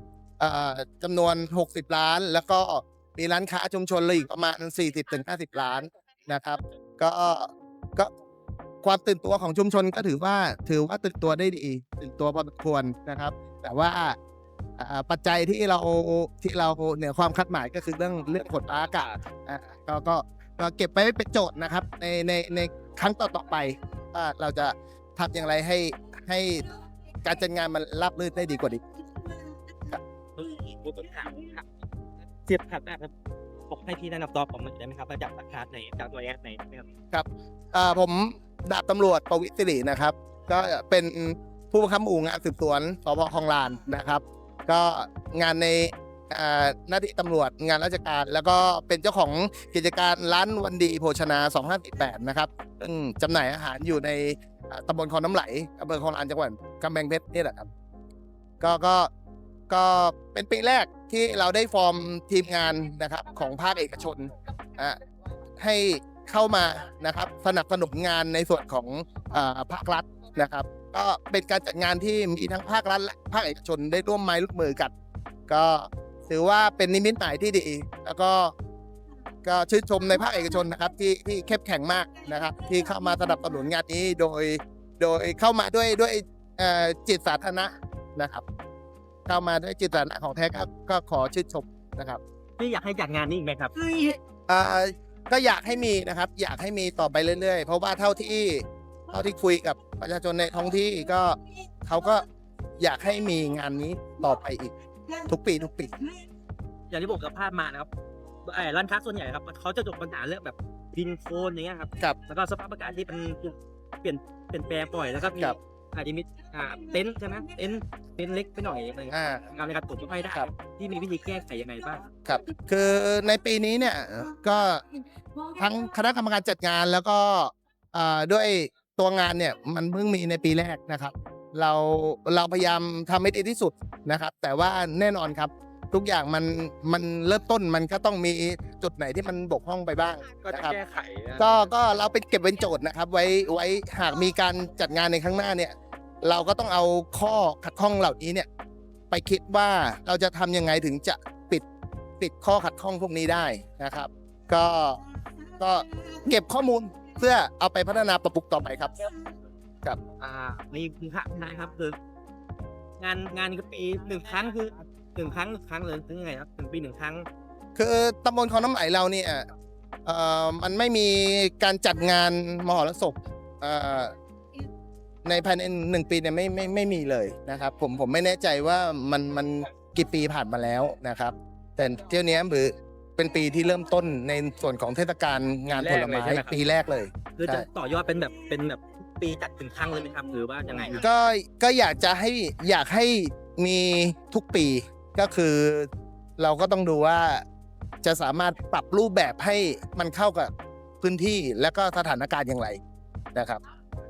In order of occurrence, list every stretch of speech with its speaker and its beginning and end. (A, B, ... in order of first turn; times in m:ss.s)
0:00.4-0:08.1 A
0:08.8-0:14.2 A
0:14.8-0:26.7 A
0:27.2-0:28.8 A
0:30.4-0:31.6 B
0:32.4-0:33.1 B
0:33.7-0:36.9 B
0:37.1-0:57.7 A
0:58.6-0:59.1 A
0:59.7-1:05.0 A
1:05.6-1:14.9 A
1:15.5-1:18.5 A
1:19.4-1:28.4 A
1:29.3-1:32.2 A
1:32.6-1:33.8 B
1:34.5-1:42.2 A
1:42.8-1:44.7 A
1:45.3-1:45.9 A
1:46.9-1:47.9 B
1:48.4-2:02.1 B
1:59.1-1:59.4 A
2:02.2-2:04.8 A
2:05.6-2:20.8 A
2:20.4-2:21.7 C
2:21.4-2:28.5 A
2:29.1-2:31.6 A
2:32.2-2:35.0 A
2:35.6-2:39.1 A
2:40.1-2:42.0 B
2:43.0-2:47.3 B
2:47.8-2:49.5 A
2:50.0-2:54.1 A
2:55.2-3:07.7 A
3:05.7-3:06.6 C
3:07.4-3:11.0 B
3:10.9-3:17.4 A
3:18.0-3:22.8 A
3:23.3-3:23.6 A